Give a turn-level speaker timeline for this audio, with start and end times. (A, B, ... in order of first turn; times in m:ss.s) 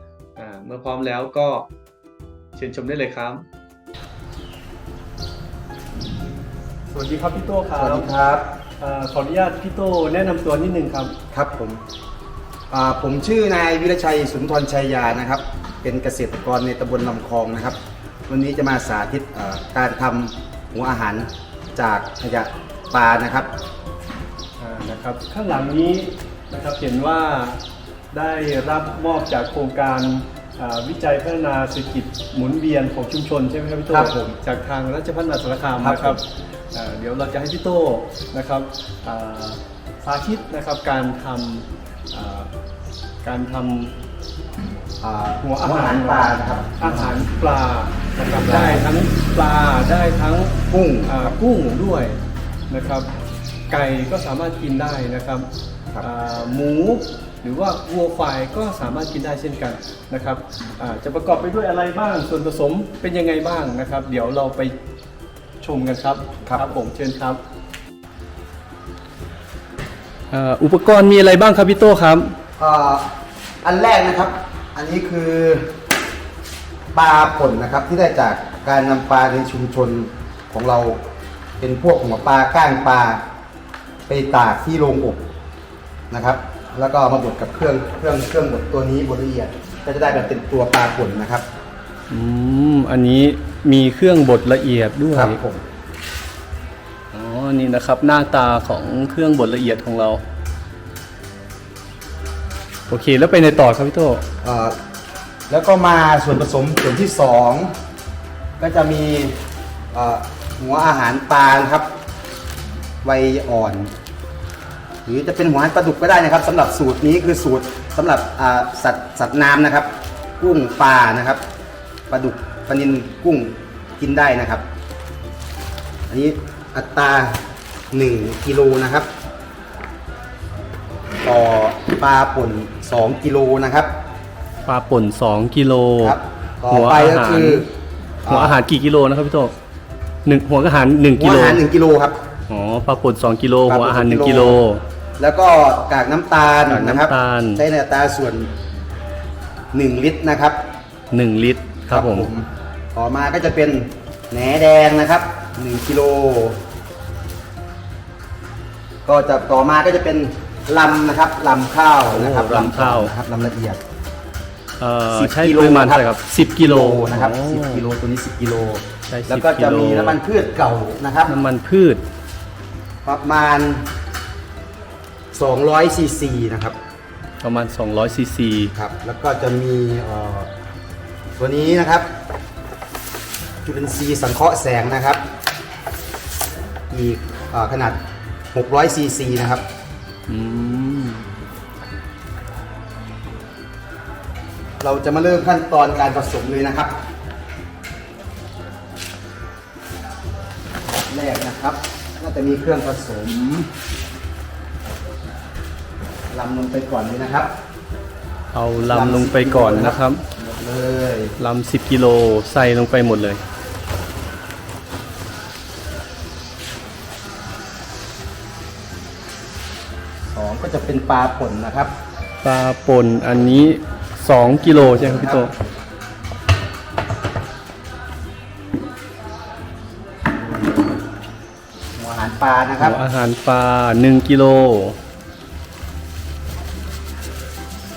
0:00.4-0:01.7 A
0:02.6-0:03.4 A
0:06.9-0:08.1 A
0:07.8-0:08.5 B
0:08.8-0:11.2 A
0:11.3-0:11.8 B
0:12.7-0:23.5 B
0:24.6-0:27.6 A
0:28.1-0:42.5 A
0:33.9-0:34.4 B
0:35.8-0:36.2 B
0:43.2-0:44.0 A
0:45.0-0:47.2 B
0:45.4-0:52.2 A
0:48.3-0:48.8 B
0:50.7-0:51.4 B
0:52.7-0:53.1 A
0:53.7-0:55.5 A
0:56.0-1:04.8 A
1:05.6-1:07.4 A
1:06.4-1:06.7 B
1:10.3-1:12.4 A
1:12.6-1:13.1 B
1:13.6-1:15.7 B
1:16.9-1:21.0 B
1:21.6-1:23.2 B
1:24.1-1:25.2 B
1:26.1-1:31.4 B
1:32.1-1:35.4 A
1:35.1-1:35.6 B
1:37.1-1:40.2 A
1:42.9-1:44.2 A
1:44.4-1:44.8 B
1:45.5-1:47.7 B
1:48.6-1:49.4 B
1:49.9-1:51.9 B
1:53.0-1:53.9 B
1:55.0-2:01.4 B
2:02.1-2:04.6 B
2:06.1-2:09.1 B
2:11.2-2:13.9 B
2:14.7-2:17.6 A
2:16.0-2:17.7 B
2:18.3-2:18.6 B
2:18.3-2:19.5 A
2:20.2-2:21.6 A
2:21.2-2:22.2 B
2:22.5-2:24.8 A
2:23.7-2:24.6 B
2:25.2-2:28.5 B
2:26.7-2:27.6 A
2:29.7-2:30.6 B
2:31.1-2:32.3 A
2:31.9-2:36.6 B
2:39.0-2:43.8 B
2:42.1-2:43.1 A
2:44.8-2:47.9 A
2:45.1-2:51.3 B
2:49.1-2:50.2 A
2:51.3-2:52.0 A
2:53.0-2:53.9 B
2:55.3-2:56.8 B
2:57.4-2:58.7 A
2:58.7-3:00.5 B
3:01.4-3:02.1 B
3:03.6-3:05.2 B
3:06.9-3:08.0 B
3:08.5-3:09.6 B
3:10.3-3:11.3 A
3:14.8-3:17.0 B
3:21.1-3:23.7 B
3:26.3-3:27.5 B
3:28.5-3:30.2 A
3:28.9-3:31.4 B
3:31.4-3:33.4 A
3:40.3-3:41.9 B
3:42.4-3:45.5 A
3:44.6-3:45.5 B
3:50.4-3:51.0 B
3:52.0-3:53.0 B
3:52.8-3:55.0 A